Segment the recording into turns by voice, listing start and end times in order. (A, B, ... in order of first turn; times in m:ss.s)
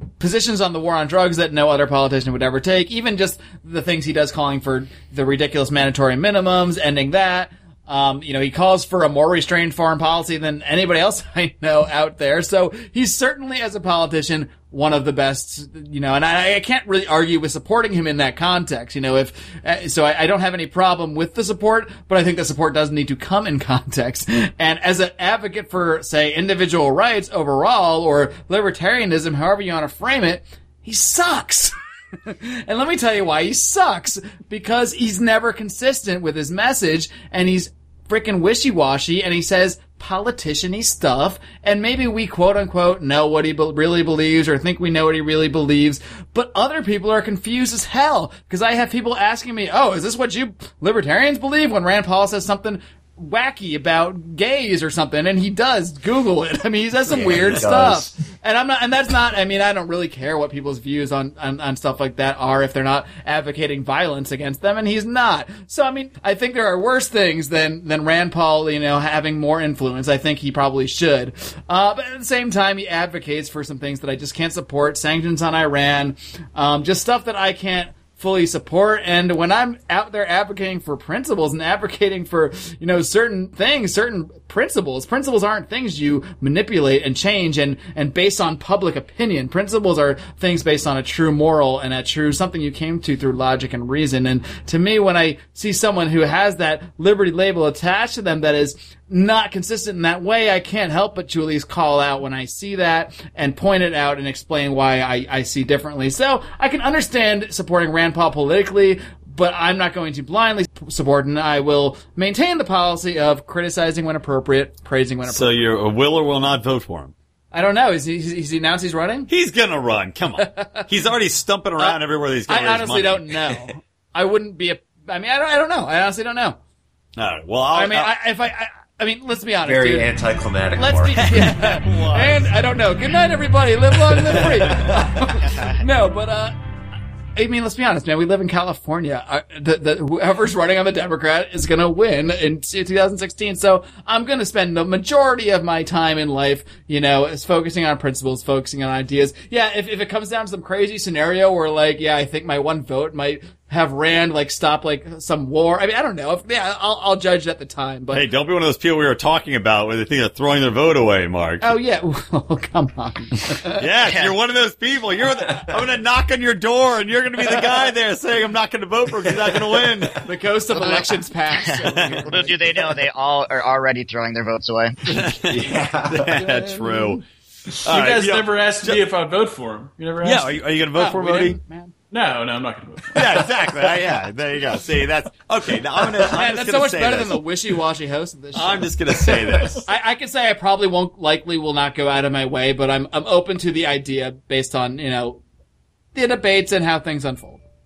0:00.2-0:31.7 A
0:32.2-1:55.7 A
0:57.2-0:58.1 B
1:55.2-1:57.1 C
1:57.5-1:59.3 A
1:59.3-2:03.6 C
2:00.4-2:00.8 A
2:01.8-2:06.6 A
2:07.2-2:08.1 C
2:07.7-2:10.1 A
2:09.6-2:11.5 B
2:10.7-2:16.6 A
2:11.2-2:12.4 C
2:14.1-2:15.0 C
2:17.4-2:38.2 A
2:38.1-2:41.6 C
2:41.6-2:43.8 A
2:43.7-2:50.2 C
2:44.0-2:44.4 D
2:50.1-2:52.6 A
2:51.9-2:52.3 C
2:52.2-2:55.1 D
2:55.2-2:57.2 C
2:55.4-2:56.4 B
2:56.4-2:57.2 A
2:57.8-2:59.0 C
2:57.8-3:00.6 E
3:00.2-3:01.6 C
3:00.9-3:01.9 A
3:02.1-3:03.5 E
3:03.1-3:07.4 C
3:06.2-3:15.4 A
3:08.5-3:09.8 C
3:16.1-3:17.6 A